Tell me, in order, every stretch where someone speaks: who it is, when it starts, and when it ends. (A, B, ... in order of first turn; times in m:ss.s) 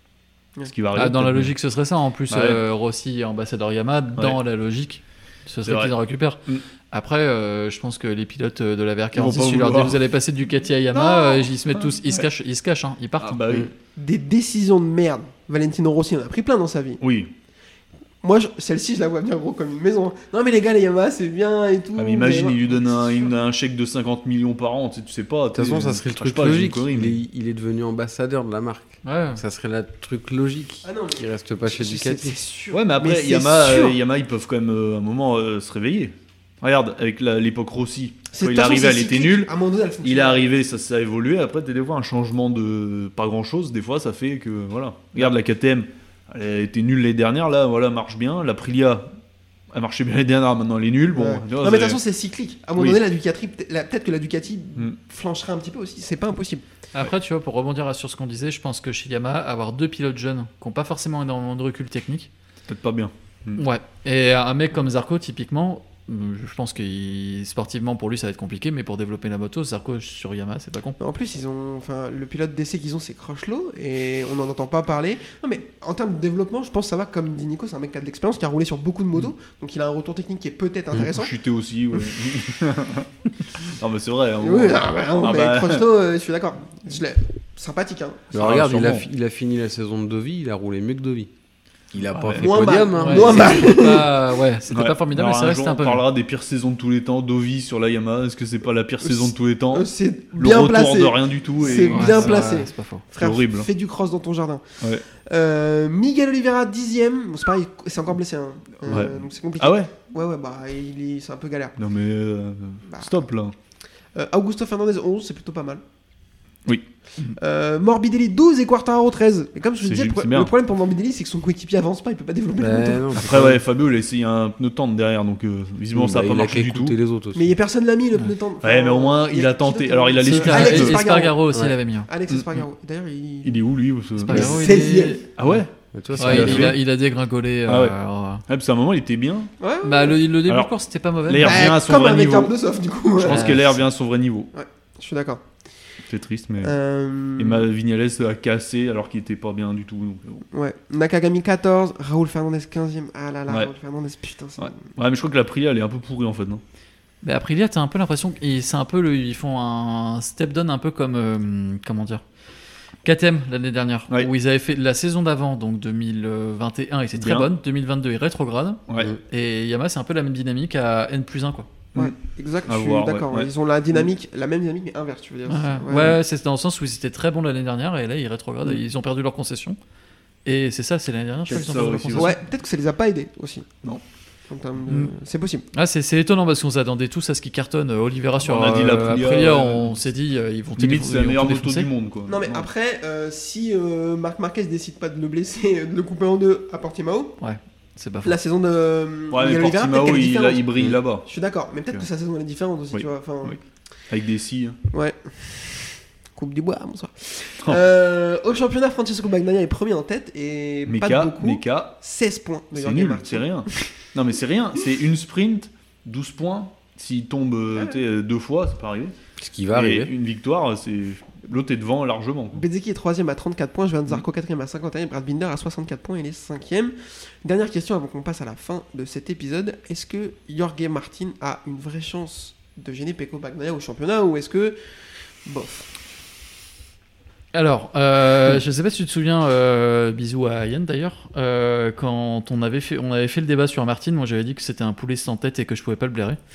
0:00.7-0:01.5 A
0:00.9-0:06.4 B
0:02.3-0:02.6 A
0:05.7-0:05.9 A
0:06.9-0:13.4 B
0:09.2-0:10.0 A
0:10.9-0:11.5 C
0:11.9-0:12.3 A
0:13.2-0:13.7 A
0:14.0-0:17.0 C
0:17.0-0:17.3 A
0:18.2-0:23.4 C
0:22.0-0:27.2 A
0:25.5-0:32.4 D
0:29.0-0:29.4 B
0:30.8-0:34.0 C
0:32.7-0:49.1 A
0:38.3-0:40.5 C
0:49.7-0:52.0 A
0:51.1-0:56.6 C
0:52.8-0:53.0 A
0:56.9-1:02.3 B
1:02.7-1:03.6 A
1:03.6-1:11.0 B
1:11.0-1:21.3 C
1:20.9-1:25.9 A
1:24.4-1:28.3 C
1:28.3-1:31.3 D
1:28.3-1:29.0 A
1:31.9-1:33.8 D
1:32.1-1:32.6 A
1:32.4-1:34.1 C
1:32.9-1:36.0 B
1:34.7-1:42.5 A
1:39.0-1:44.6 C
1:41.8-1:43.0 B
1:43.2-1:43.7 A
1:45.3-1:51.8 C
1:48.9-1:49.9 A
1:51.8-1:53.5 A
1:52.9-1:53.1 C
1:54.1-1:55.8 C
1:56.7-1:57.4 A
1:57.4-2:03.2 C
1:59.8-2:00.5 A
2:02.6-2:03.6 D
2:03.2-2:07.0 A
2:05.9-2:07.6 D
2:07.3-2:11.4 C
2:08.6-2:11.0 A
2:10.2-2:12.1 B
2:12.1-2:13.6 C
2:12.3-2:12.6 A
2:13.4-2:14.8 A
2:14.2-2:15.6 B
2:14.3-2:15.2 C
2:15.4-2:16.8 A
2:15.9-2:16.8 D
2:16.2-2:18.4 B
2:16.4-2:16.6 C
2:17.7-2:17.9 A
2:18.5-2:19.5 A
2:19.6-2:20.2 C
2:19.8-2:21.7 B
2:21.3-2:22.5 A
2:21.4-2:23.7 C
2:23.2-2:24.5 A
2:23.3-2:23.6 B
2:24.5-2:25.4 C
2:26.1-2:26.8 A
2:26.6-2:27.6 C
2:27.4-2:30.4 A
2:30.5-2:34.8 C
2:34.6-2:36.6 A
2:37.2-2:42.2 B
2:43.0-2:51.7 B
2:47.2-2:47.5 A
2:51.9-2:54.1 A
2:52.0-2:56.2 C
2:55.5-2:59.8 B
3:00.4-3:02.4 B
3:01.5-3:02.4 A
3:02.2-3:03.7 C
3:04.5-3:05.7 C
3:05.7-3:11.9 B
3:08.4-3:10.0 A
3:10.8-3:12.7 A
3:12.3-3:17.4 C
3:17.4-3:18.4 B
3:18.2-3:23.6 C
3:19.3-3:21.3 A
3:22.9-3:23.6 A
3:24.1-3:24.8 A
3:24.9-3:33.5 C
3:30.9-3:32.0 A
3:32.7-3:39.1 A
3:39.4-3:40.1 D
3:39.7-3:42.6 A
3:42.5-3:54.8 C
3:55.4-3:55.9 C
3:57.5-4:06.4 B